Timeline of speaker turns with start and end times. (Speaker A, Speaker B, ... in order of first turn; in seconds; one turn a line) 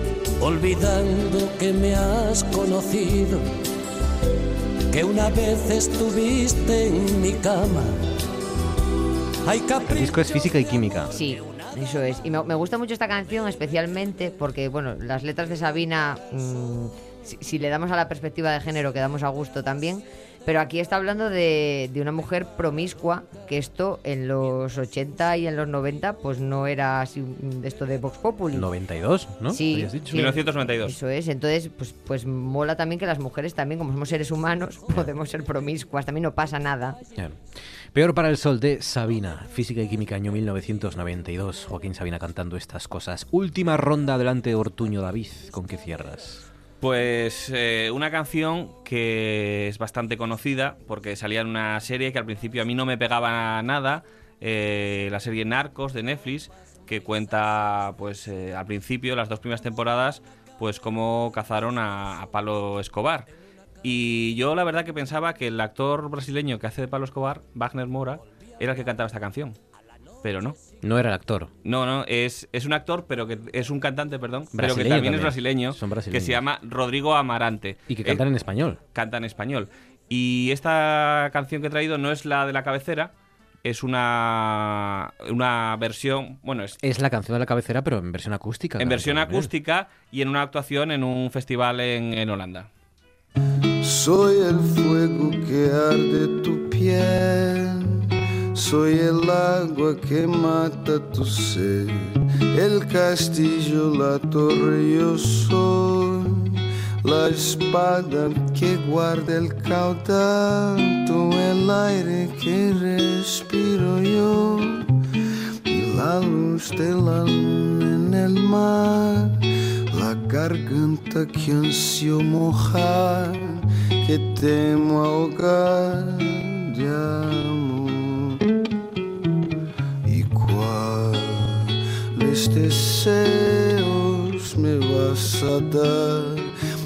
Speaker A: 0.4-3.4
Speaker A: 4.9-8.0
Speaker A: 9.4-10.2
Speaker B: 9.8-11.1
Speaker C: 11.1-28.7
Speaker B: 28.5-30.2
Speaker C: 29.5-37.0
Speaker D: 30.1-31.0
Speaker B: 37.2-37.4
Speaker B: 37.9-46.4
Speaker D: 46.8-63.3
Speaker D: 63.8-69.6
Speaker D: 70.2-70.6
Speaker B: 70.8-71.5
Speaker D: 71.6-78.2
Speaker B: 74.5-76.4
Speaker B: 77.9-78.8
Speaker D: 78.9-83.1
Speaker D: 83.6-86.8
Speaker B: 86.8-89.5
Speaker D: 88.8-92.7
Speaker E: 93.8-114.9
Speaker E: 115.7-128.4
Speaker E: 130.0-136.5